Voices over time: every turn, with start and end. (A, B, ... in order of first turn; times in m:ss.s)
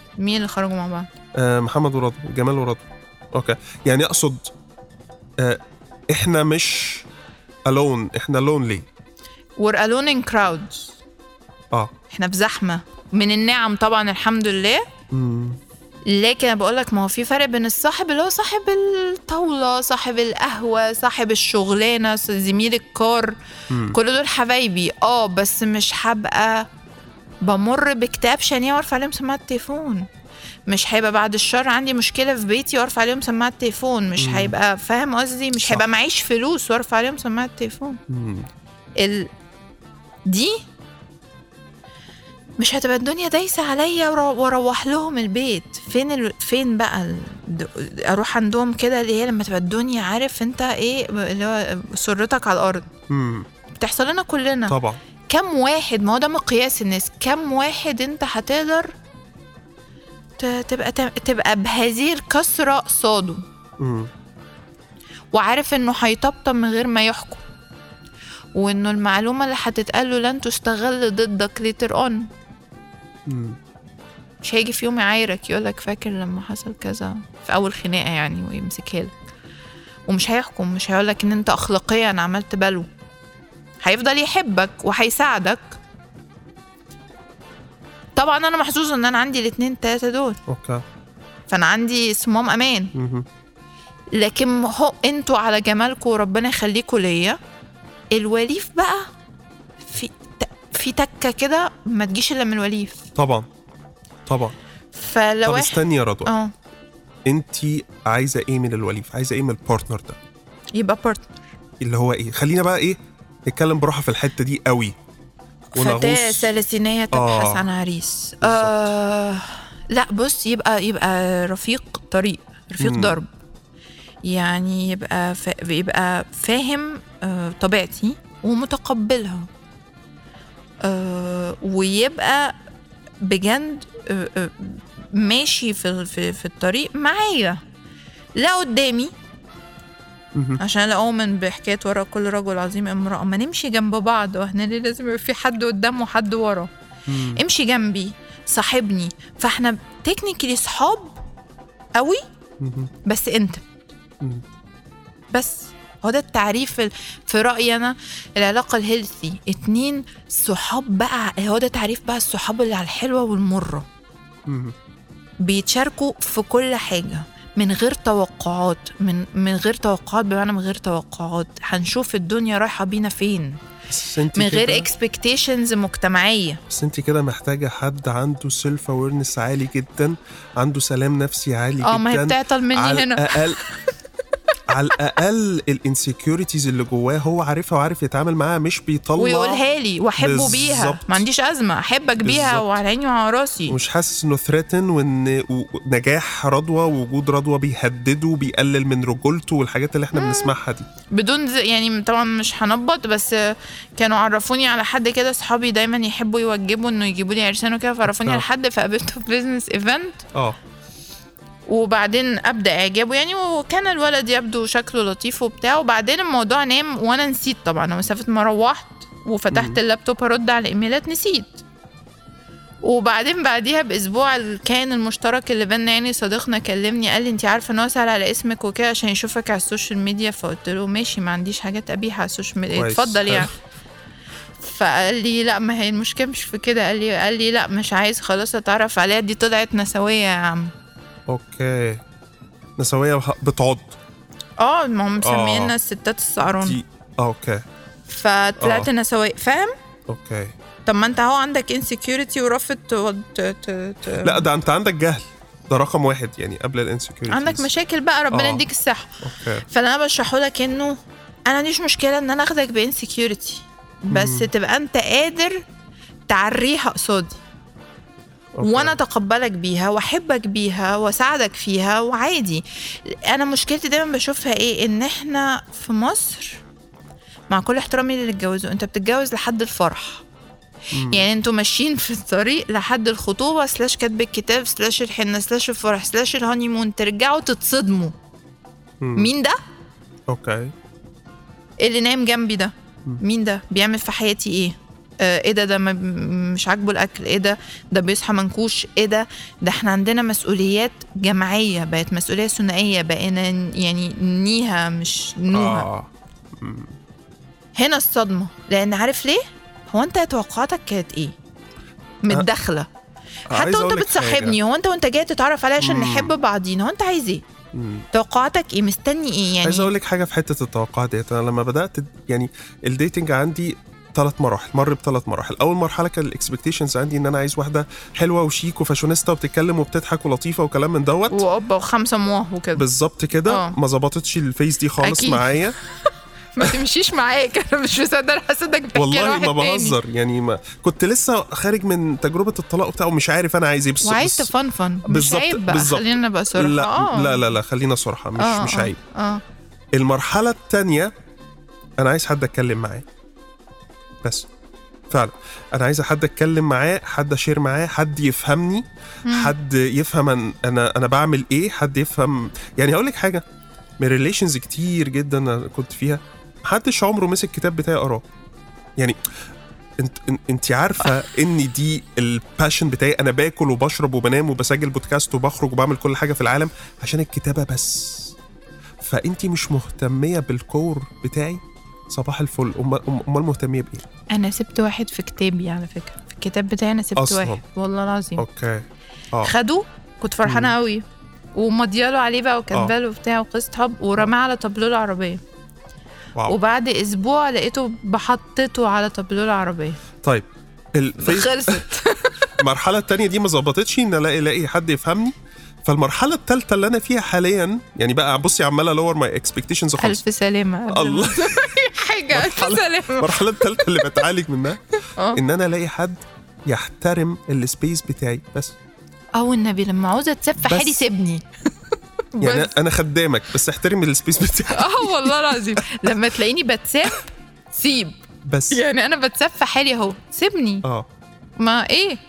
0:00.2-0:01.1 A
0:01.3-0:04.5 B
0:05.4-0:07.1 B
0:07.6-0:08.8 B
0:09.6-0:11.0 A
0:12.1-0:14.8 A
0:15.1-0:15.6 B
0:16.1-0:23.3 A
0:23.7-0:24.0 B
0:23.9-0:26.7 A
0:27.4-0:30.1 A
0:30.7-0:38.0 A
0:34.2-0:34.5 B
0:38.1-0:38.5 B
0:39.0-0:39.3 A
0:40.2-0:40.6 A
0:42.6-0:52.9 A
0:53.1-0:53.5 B
0:53.7-0:54.8 A
0:54.7-0:55.0 B
0:55.3-0:58.9 A
1:00.4-1:03.4 A
1:03.8-1:04.1 B
1:05.3-1:07.4 A
1:08.5-1:12.3 A
1:13.2-1:13.6 B
1:14.4-1:19.1 A
1:20.1-1:22.9 A
1:23.8-1:25.8 A
1:28.2-1:30.4 A
1:30.5-1:30.8 B
1:31.5-1:32.9 A
1:32.9-1:33.2 B
1:34.1-1:37.4 A
1:38.1-1:39.1 A
1:39.8-1:43.0 A
1:43.1-1:43.4 B
1:44.2-1:44.6 B
1:44.9-1:46.5 A
1:45.4-1:46.3 B
1:47.2-1:50.2 B
1:50.7-1:51.4 A
1:51.8-1:54.9 B
1:55.7-2:03.3 A
1:55.8-1:56.5 B
1:57.1-1:57.6 B
1:58.4-1:58.9 B
2:02.8-2:03.2 B
2:04.2-2:09.5 A
2:10.8-2:12.5 A
2:13.2-2:17.6 A
2:18.4-2:19.1 A
2:20.3-2:20.6 B
2:20.6-2:26.7 A
2:27.1-2:27.4 B
2:27.2-2:31.2 A
2:32.6-2:32.9 B
2:33.0-2:33.6 A
2:35.3-2:43.9 A
2:44.4-2:44.7 B
2:45.4-2:53.6 A
2:53.9-2:54.9 B
2:54.3-2:56.6 A
2:56.7-3:03.6 B
3:01.8-3:03.8 A
3:04.7-3:09.6 B
3:09.2-3:13.8 A
3:10.2-3:11.2 B
3:12.2-3:12.7 B
3:13.7-3:20.9 B
3:20.1-3:20.5 A
3:21.1-3:30.2 A
3:28.0-3:28.4 B
3:31.6-3:41.6 A
3:39.5-3:39.8 B
3:42.8-3:53.5 A
3:52.7-3:53.5 B
3:54.6-4:00.7 A
4:01.3-4:02.0 B
4:02.8-4:04.0 B
4:04.6-4:06.8 A
4:05.2-4:05.7 B
4:06.6-4:07.6 B
4:08.1-4:09.7 A
4:08.6-4:08.9 B
4:10.1-4:10.6 B
4:10.8-4:14.5 A
4:14.2-4:17.7 B
4:17.3-4:21.0 A
4:18.3-4:18.6 B
4:19.2-4:19.6 B
4:21.5-4:25.6 A
4:24.1-4:24.5 B
4:26.3-4:27.4 A
4:28.6-4:29.0 B
4:28.6-4:36.6 A
4:37.5-4:40.2 A
4:40.9-4:41.2 B
4:41.0-4:48.1 A
4:49.0-4:49.3 B
4:49.2-4:49.6 A
4:50.3-4:50.7 B
4:51.8-5:05.9 A
5:05.5-5:06.9 B
5:07.8-5:11.4 A
5:12.2-5:12.9 A
5:13.5-5:14.6 B
5:13.5-5:17.4 A
5:15.8-5:16.3 B
5:17.7-5:18.0 B
5:18.1-5:19.9 A
5:19.6-5:31.4 B
5:31.3-5:32.8 A
5:32.8-5:35.8 B
5:33.5-5:33.8 A
5:35.0-5:35.6 A
5:36.6-5:40.0 A
5:38.9-5:44.5 B
5:44.0-5:47.5 A
5:45.0-5:49.0 B
5:48.4-5:49.4 A
5:49.9-5:51.1 B
5:52.0-5:53.0 B
5:54.2-5:54.5 B
5:55.1-6:03.4 B
5:59.2-5:59.5 A
6:04.0-6:08.2 B
6:10.0-6:18.4 B
6:19.0-6:24.1 B
6:24.3-6:28.4 A
6:27.2-6:27.6 B
6:28.4-6:29.5 B
6:29.4-6:35.4 A
6:30.4-6:30.7 B
6:36.4-6:40.0 A
6:40.2-6:41.8 B
6:41.2-6:42.5 A
6:42.6-6:50.2 B
6:50.0-6:54.2 A
6:50.9-6:51.7 B
6:52.3-6:54.8 B
6:55.2-6:55.4 A
6:55.3-6:58.8 B
6:59.3-7:01.4 A
7:00.6-7:01.0 B
7:02.4-7:02.7 A
7:02.4-7:06.0 B
7:04.7-7:10.8 A
7:08.4-7:08.8 B
7:11.6-7:12.2 A